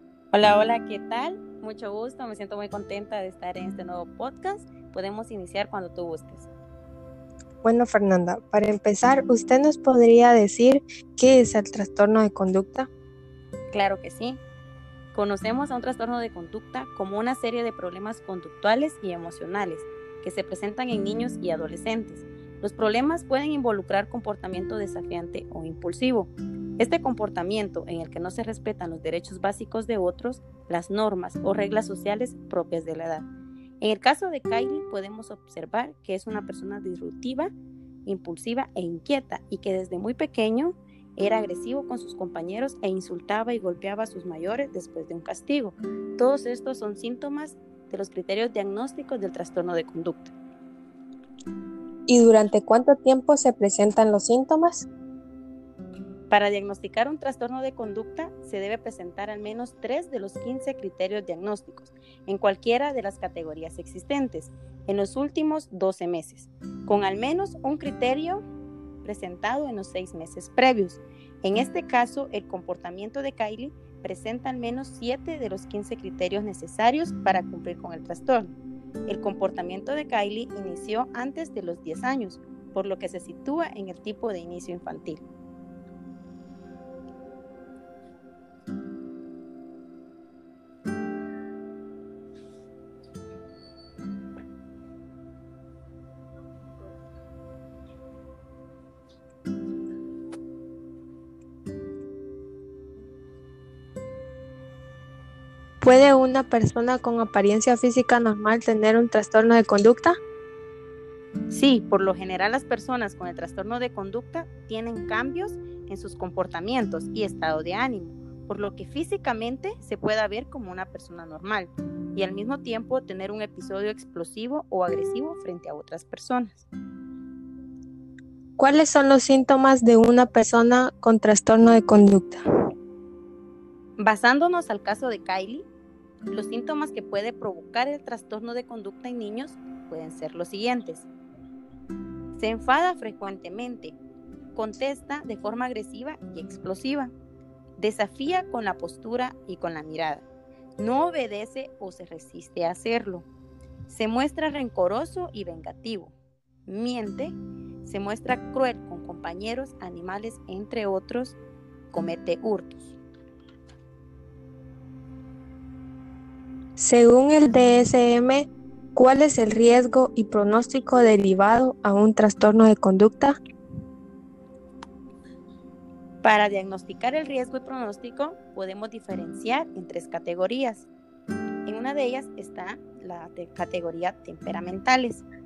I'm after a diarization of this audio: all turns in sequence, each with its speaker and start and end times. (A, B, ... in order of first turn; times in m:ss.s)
0:00.3-0:06.5 A
0:07.6-0:12.9 B
0:13.7-0:14.4 A
0:15.1-0:33.3 A
0:33.8-0:37.5 A
0:38.0-0:50.3 A
0:52.1-0:54.8 B
0:56.3-1:08.4 A
1:09.0-1:25.2 A
1:45.8-1:50.2 B
1:51.5-2:06.6 A
2:08.6-2:12.4 B
2:14.0-2:15.6 A
2:16.3-2:21.1 A
2:22.3-2:24.0 A
2:24.5-2:27.1 A
2:27.8-2:30.2 A
2:30.8-2:33.3 A
2:33.9-2:36.1 A
2:36.6-2:41.4 A
2:41.9-2:42.9 A
2:46.8-2:53.4 B
2:56.2-3:00.9 A
3:01.6-3:05.2 A